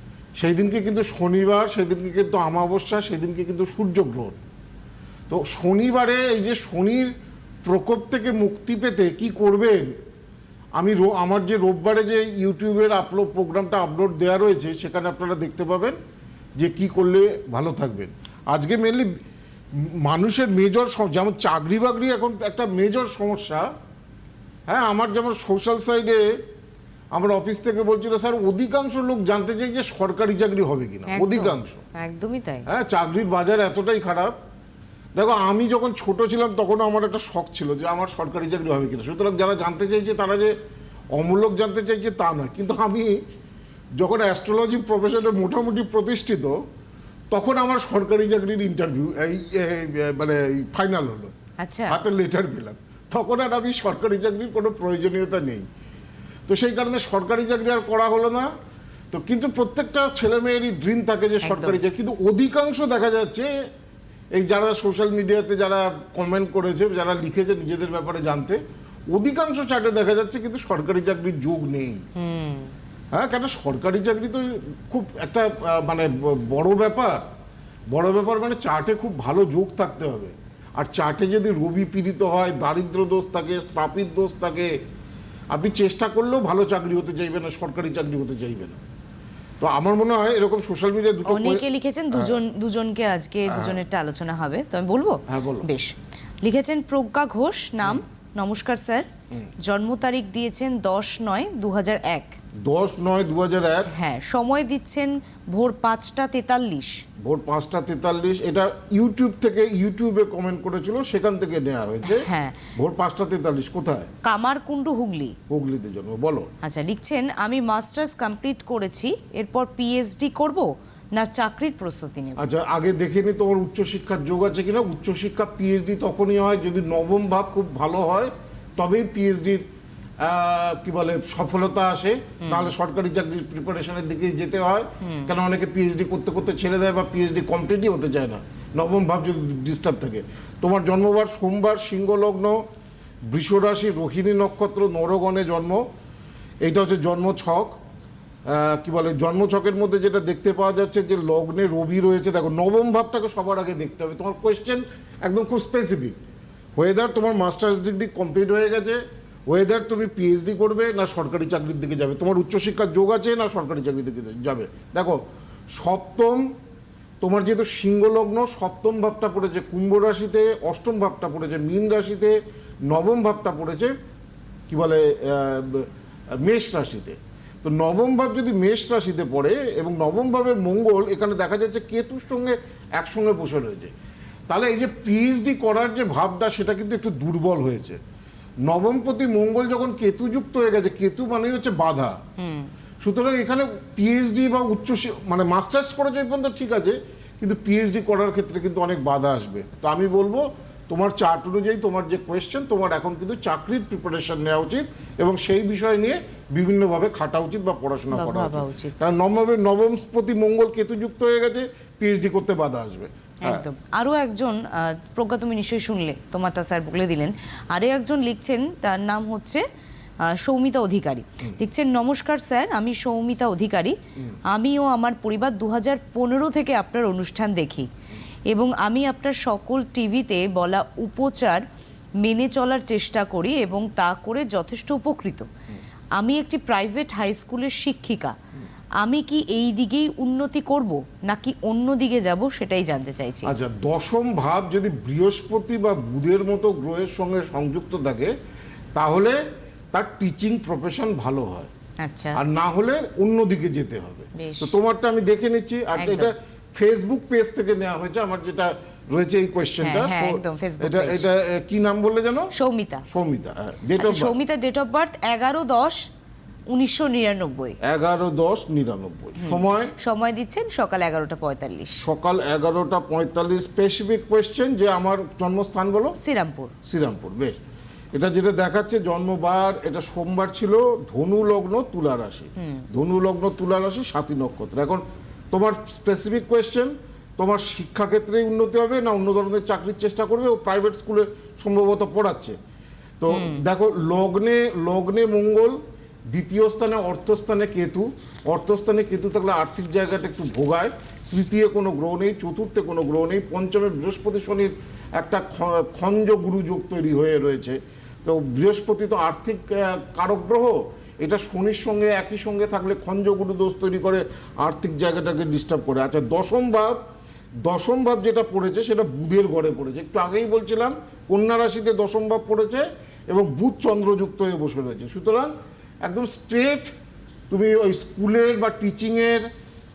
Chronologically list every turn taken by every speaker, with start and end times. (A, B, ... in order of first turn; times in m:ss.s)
0:00.4-0:04.4 A
0:05.3-0:07.1 A
0:07.6-0:09.9 A
0:10.8-0:16.0 A
0:16.6-0:19.1 A
0:19.8-0:23.7 A
0:24.7-0:26.3 A
0:27.1-0:31.8 A
0:31.1-0:32.7 B
0:32.7-0:34.3 A
0:35.2-0:40.6 A
0:41.2-0:43.2 A
0:44.0-0:46.6 A
0:47.3-0:51.3 A
0:51.6-0:52.0 B
0:51.9-0:55.7 A
0:56.5-0:58.5 A
0:59.1-1:03.6 A
1:01.4-1:01.8 B
1:04.4-1:08.6 A
1:09.1-1:12.0 A
1:12.2-1:12.7 B
1:13.1-1:17.2 A
1:17.9-1:24.8 A
1:25.5-1:28.8 A
1:29.6-1:32.4 A
1:31.3-1:39.1 B
1:33.5-1:33.8 A
1:35.3-1:35.7 A
1:39.6-1:42.4 B
1:42.6-1:43.9 A
1:43.9-1:47.0 B
1:47.2-1:54.1 A
1:52.1-1:52.7 B
1:54.2-1:55.4 B
1:55.5-1:56.5 A
1:56.6-2:02.4 B
2:02.4-2:09.6 A
2:10.2-2:22.6 A
2:12.4-2:12.7 B
2:15.0-2:15.3 B
2:23.3-2:25.8 A
2:26.6-2:27.8 A
2:28.5-2:36.2 A
2:36.8-2:45.2 A
2:45.8-2:46.5 A
2:47.2-2:52.4 A
2:52.9-2:53.9 A
2:54.7-2:55.9 A
2:56.4-3:03.9 A
3:04.5-3:08.0 A
3:08.6-3:12.2 A
3:12.4-3:12.7 B
3:13.0-3:33.6 A
3:28.1-3:29.0 B
3:33.4-3:39.6 B
3:40.2-3:44.0 B
3:44.5-3:47.9 B
3:48.5-3:51.6 B
3:52.2-3:55.5 B
3:56.2-3:58.4 B
3:59.0-4:03.5 B
4:03.4-4:08.3 A
4:09.0-4:09.4 A
4:09.9-4:11.7 A
4:12.0-4:12.4 B
4:12.4-4:22.5 A
4:14.4-4:14.7 B
4:16.0-4:16.3 B
4:19.8-4:21.2 B
4:22.5-4:23.0 B
4:23.1-4:24.3 A
4:24.0-4:26.1 B
4:26.7-4:27.8 B
4:27.8-4:29.9 A
4:29.4-4:32.0 B
4:32.0-4:36.2 A
4:36.2-4:36.7 B
4:36.9-4:37.6 A
4:38.1-4:52.6 A
4:42.6-4:42.9 B
4:53.2-4:55.8 A
4:53.3-4:53.6 B
4:56.3-5:17.0 A
5:17.6-5:25.5 A
5:26.0-5:26.9 A
5:27.5-5:29.5 A